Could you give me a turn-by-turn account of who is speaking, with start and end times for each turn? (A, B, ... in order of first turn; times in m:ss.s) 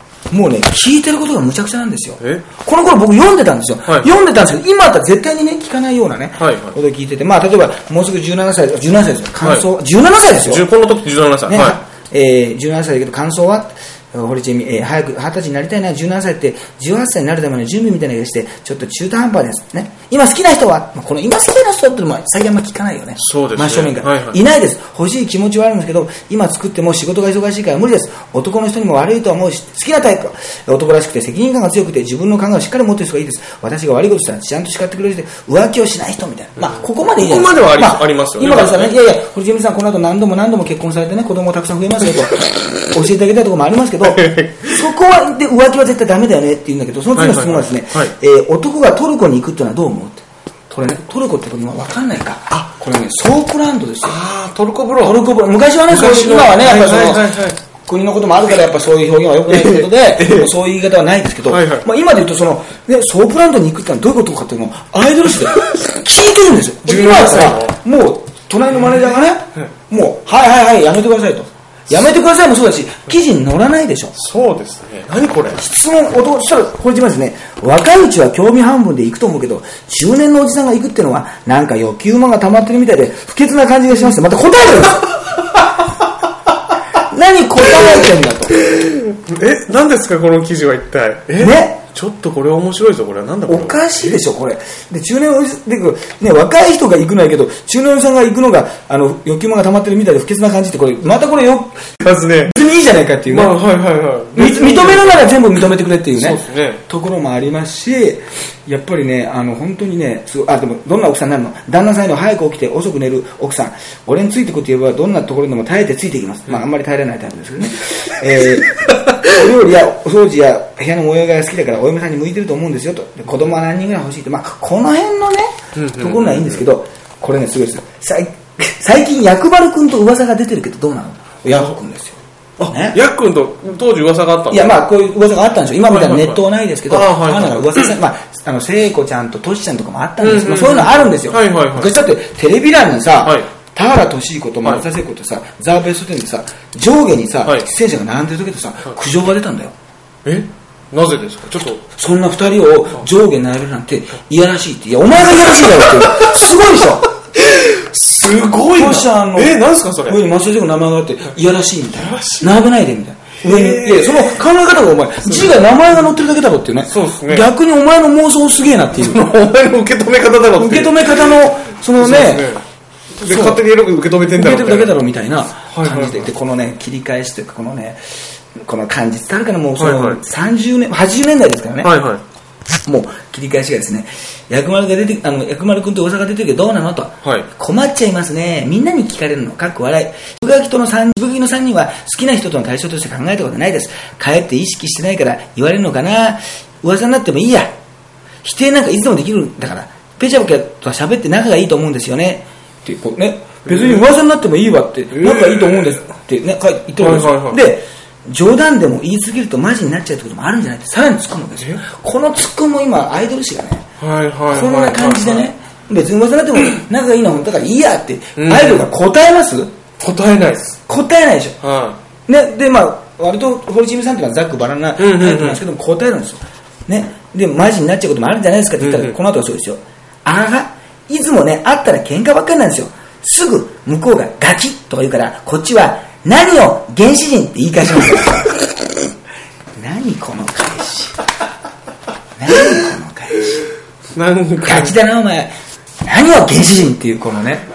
0:00.3-0:10.7 A
0:02.2-0:02.5 B
0:06.4-0:06.8 B
0:09.4-0:09.7 B
0:10.3-0:11.8 B
0:11.5-0:54.2 A
0:23.2-0:24.4 B
0:36.6-0:39.0 B
0:44.0-0:44.8 B
0:47.2-0:48.1 B
0:54.0-0:55.2 B
0:55.0-1:14.2 A
0:55.9-0:57.6 B
0:59.5-1:00.5 B
1:01.4-1:01.9 B
1:06.8-1:07.8 B
1:14.2-1:15.7 B
1:15.6-1:25.1 A
1:27.0-1:28.6 A
1:27.7-1:28.0 B
1:28.6-1:34.2 B
1:31.4-1:31.8 A
1:33.5-1:41.9 A
1:42.0-1:42.6 B
1:42.5-1:43.6 A
1:43.3-1:45.4 B
1:44.4-2:13.0 A
1:46.2-1:46.8 B
2:05.8-2:06.6 B
2:12.6-2:14.8 B
2:14.5-2:29.7 A
2:15.8-2:17.9 B
2:20.2-2:22.0 B
2:30.2-2:31.8 B
2:31.8-2:37.1 A
2:36.1-2:36.3 B
2:37.3-2:40.2 B
2:38.7-2:49.3 A
2:42.0-2:42.6 B
2:43.4-2:44.4 B
2:45.2-2:45.7 B
2:46.9-2:47.5 B
2:48.9-2:52.6 B
2:50.6-2:52.5 A
2:53.2-2:55.0 B
2:53.3-2:53.6 A
2:54.4-3:01.9 A
2:55.7-2:56.3 B
2:59.8-3:00.2 B
3:01.8-3:02.2 B
3:02.9-3:17.7 A
3:18.4-3:33.9 A
3:23.7-3:24.1 B
3:25.1-3:26.0 B
3:27.0-3:27.6 B
3:34.0-3:35.5 B
3:34.5-3:39.7 A
3:38.4-3:38.9 B
3:40.0-3:40.8 B
3:40.9-3:41.6 A
3:41.6-3:42.0 B
3:42.3-3:58.7 A
3:45.0-3:45.6 B
3:48.8-3:49.2 B
3:59.8-4:01.2 A
4:02.4-4:03.7 A
4:04.2-4:05.0 B
4:04.6-4:05.5 A
4:06.1-4:07.7 A